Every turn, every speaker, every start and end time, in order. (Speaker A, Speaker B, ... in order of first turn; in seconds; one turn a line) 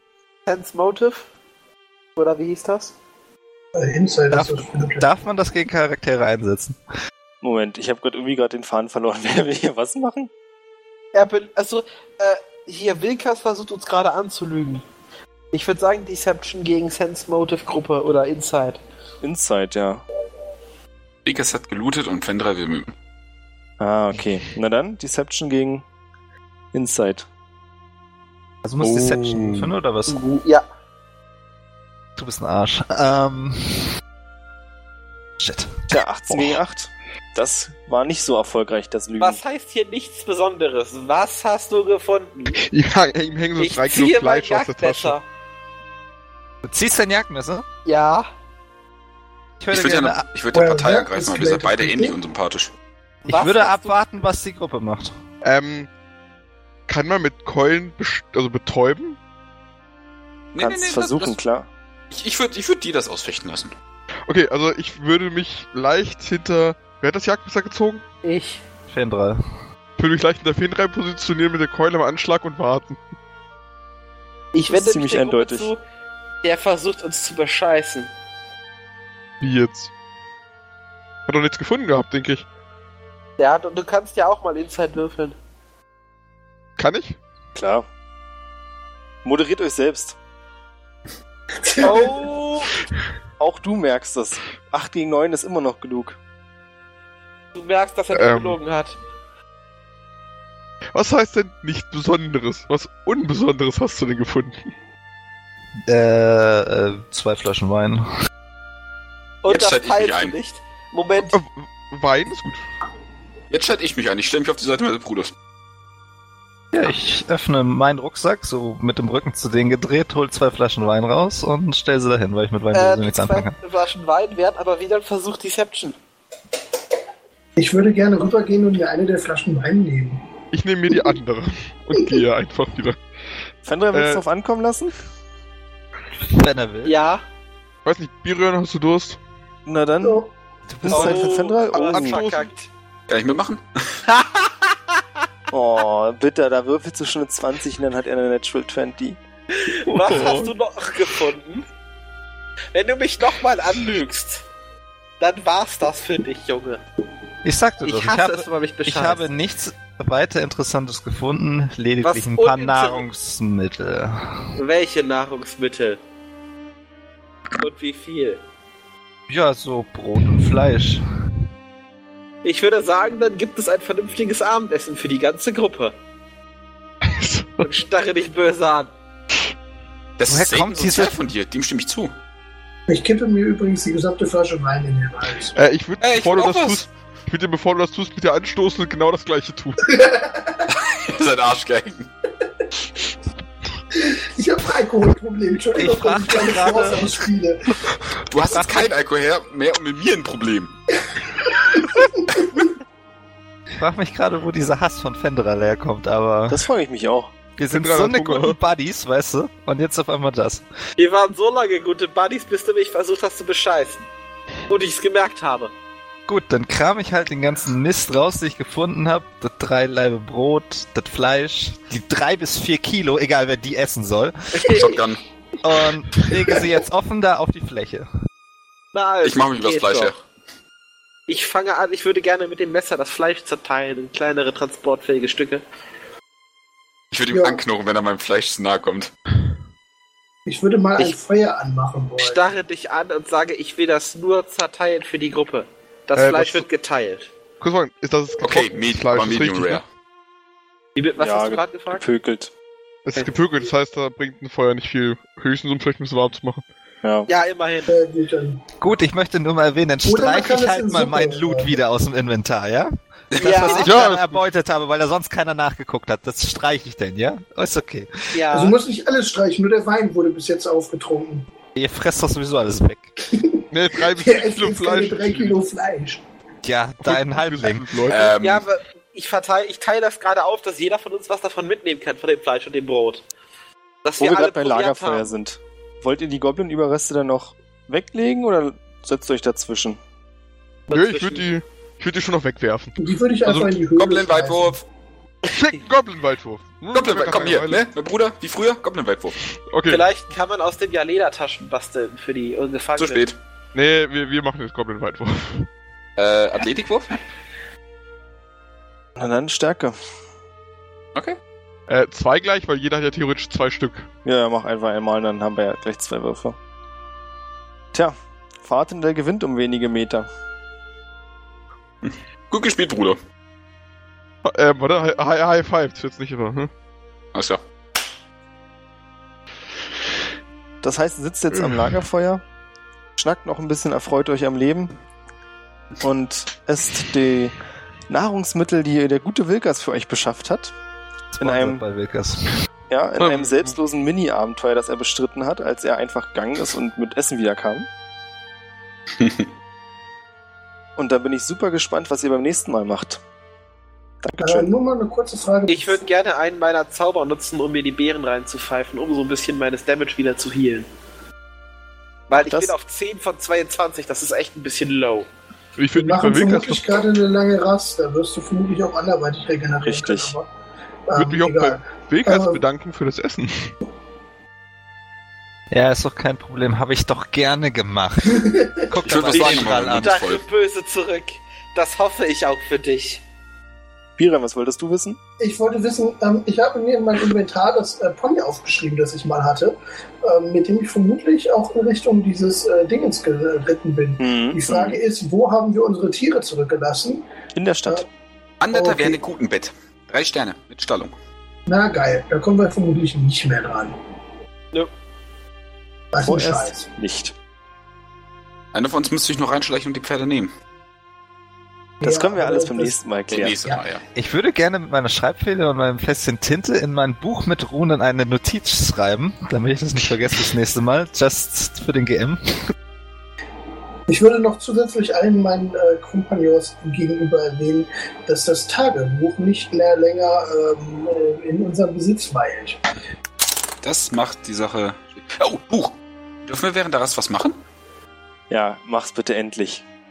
Speaker A: 0.5-1.3
Speaker A: 2.1-2.9
Speaker B: 3.7-5.1
Speaker C: 4.3-6.8
Speaker D: 7.4-10.3
Speaker A: 11.1-14.8
Speaker A: 15.5-18.8
Speaker D: 19.2-20.0
Speaker E: 21.3-22.9
Speaker D: 23.8-25.8
Speaker D: 26.7-27.3
Speaker C: 28.6-30.2
Speaker F: 28.8-29.7
Speaker A: 30.1-30.6
Speaker C: 32.2-33.9
Speaker C: 35.4-36.4
Speaker D: 35.9-39.4
Speaker A: 39.2-42.6
Speaker F: 42.5-45.2
Speaker A: 43.6-45.2
Speaker C: 46.6-47.6
Speaker A: 47.8-48.3
Speaker C: 49.6-50.2
Speaker E: 49.7-52.7
Speaker B: 50.5-52.2
Speaker C: 53.2-55.1
Speaker A: 53.3-54.0
Speaker F: 55.4-55.9
Speaker F: 56.9-59.2
Speaker E: 60.5-61.4
Speaker D: 60.6-61.7
Speaker E: 62.1-63.7
Speaker F: 64.3-68.0
Speaker A: 68.2-68.6
Speaker C: 68.9-69.4
Speaker F: 70.0-73.0
Speaker A: 74.5-75.8
Speaker D: 74.7-75.7
Speaker A: 76.4-78.1
Speaker F: 79.4-79.9
Speaker F: 81.3-82.5
Speaker A: 83.4-85.3
Speaker F: 86.8-87.2
Speaker D: 87.5-87.8
Speaker D: 89.2-90.2
Speaker B: 91.6-92.3
Speaker A: 91.8-92.7
Speaker D: 93.4-96.2
Speaker A: 97.5-99.0
Speaker F: 98.1-98.6
Speaker F: 100.9-104.7
Speaker C: 105.8-108.1
Speaker A: 109.4-111.4
Speaker E: 109.5-110.3
Speaker F: 111.2-112.6
Speaker E: 113.5-115.3
Speaker C: 116.7-123.5
Speaker A: 122.7-125.9
Speaker B: 127.5-130.2
Speaker F: 130.5-133.0
Speaker D: 133.6-134.9
Speaker F: 133.9-134.2
Speaker C: 136.3-136.9
Speaker A: 136.8-137.2
Speaker F: 137.8-139.2
Speaker D: 139.7-140.2
Speaker B: 140.0-140.3
Speaker C: 140.7-141.2
Speaker D: 140.8-142.2
Speaker A: 140.9-142.7
Speaker F: 141.7-142.5
Speaker E: 143.1-144.0
Speaker A: 144.1-145.0
Speaker D: 145.5-149.2
Speaker A: 149.5-151.7
Speaker F: 149.9-150.5
Speaker A: 152.7-154.4
Speaker A: 155.2-156.8
Speaker C: 157.4-164.5
Speaker A: 157.8-159.3
Speaker A: 162.0-163.0
Speaker A: 164.6-166.0
Speaker A: 167.6-168.4
Speaker C: 169.3-171.1
Speaker A: 172.4-175.9
Speaker F: 177.0-177.7
Speaker A: 177.6-178.9
Speaker E: 180.2-182.1
Speaker C: 180.3-181.3
Speaker B: 182.9-185.6
Speaker F: 185.6-189.9
Speaker E: 186.0-186.9
Speaker B: 189.9-190.6
Speaker E: 190.7-192.1
Speaker B: 193.9-197.7
Speaker C: 195.7-197.2
Speaker E: 198.3-200.8
Speaker C: 198.5-198.9
Speaker B: 201.4-202.6
Speaker C: 203.7-206.6
Speaker D: 206.5-207.3
Speaker C: 207.6-210.6
Speaker F: 207.7-208.6
Speaker A: 211.0-214.1
Speaker A: 214.7-215.7
Speaker C: 216.3-224.8
Speaker A: 224.5-225.0
Speaker E: 224.7-225.2
Speaker C: 225.6-228.1
Speaker A: 228.9-230.1
Speaker E: 229.2-230.2
Speaker A: 231.3-235.6
Speaker E: 237.1-239.1
Speaker B: 237.3-237.6
Speaker B: 240.4-242.4
Speaker A: 242.2-247.3
Speaker F: 246.2-246.7
Speaker F: 247.6-249.8
Speaker E: 248.4-249.8
Speaker A: 250.9-252.0
Speaker D: 251.2-252.5
Speaker F: 253.1-256.6
Speaker D: 257.0-257.3
Speaker A: 257.3-257.9
Speaker B: 257.9-258.7
Speaker C: 258.8-268.4
Speaker B: 260.1-261.7
Speaker E: 263.3-263.6
Speaker A: 263.4-264.0
Speaker F: 263.8-264.4
Speaker A: 268.3-268.8
Speaker B: 268.5-271.5
Speaker C: 271.7-273.1
Speaker B: 273.3-276.2
Speaker F: 273.7-275.6
Speaker C: 276.6-278.1
Speaker F: 277.0-278.3
Speaker E: 278.1-278.7
Speaker A: 278.4-283.2
Speaker A: 284.0-285.3
Speaker D: 284.2-290.0
Speaker A: 290.9-291.5
Speaker F: 290.9-292.9
Speaker B: 293.0-294.8
Speaker F: 293.4-293.8
Speaker E: 293.9-294.8
Speaker F: 295.4-297.8
Speaker E: 296.9-299.4
Speaker F: 299.6-300.0
Speaker A: 299.9-303.2
Speaker E: 302.9-303.4
Speaker F: 303.7-305.7
Speaker E: 306.2-307.2
Speaker D: 309.2-310.0
Speaker F: 311.9-314.1
Speaker D: 314.2-316.6
Speaker D: 317.9-320.3
Speaker E: 322.0-323.2
Speaker F: 324.4-326.7
Speaker E: 327.3-327.6
Speaker D: 330.8-332.4
Speaker D: 333.2-334.9
Speaker D: 336.0-337.6
Speaker D: 338.1-340.7
Speaker C: 341.3-342.5
Speaker D: 341.4-341.8
Speaker D: 342.9-347.9
Speaker F: 343.2-343.7
Speaker E: 349.1-349.5
Speaker D: 351.0-353.2
Speaker D: 354.2-354.7
Speaker B: 354.4-356.0
Speaker A: 355.7-360.9
Speaker A: 362.3-365.3
Speaker D: 362.3-362.7
Speaker F: 365.8-367.1
Speaker B: 365.9-370.5
Speaker D: 369.8-370.4
Speaker B: 371.1-372.6
Speaker F: 371.1-373.7
Speaker C: 375.7-380.2
Speaker B: 378.3-378.9
Speaker E: 379.0-380.4
Speaker A: 379.3-383.2
Speaker D: 384.2-385.2
Speaker B: 385.4-397.2
Speaker D: 394.2-395.0
Speaker D: 397.6-398.1
Speaker E: 398.6-401.1
Speaker B: 398.7-399.2
Speaker B: 401.7-403.9
Speaker B: 406.1-406.9
Speaker D: 406.2-407.3
Speaker E: 408.7-410.5
Speaker B: 412.0-413.0
Speaker D: 412.0-413.6
Speaker E: 413.3-414.0
Speaker C: 414.1-422.7
Speaker B: 424.1-432.8
Speaker E: 433.8-437.6
Speaker D: 438.5-439.8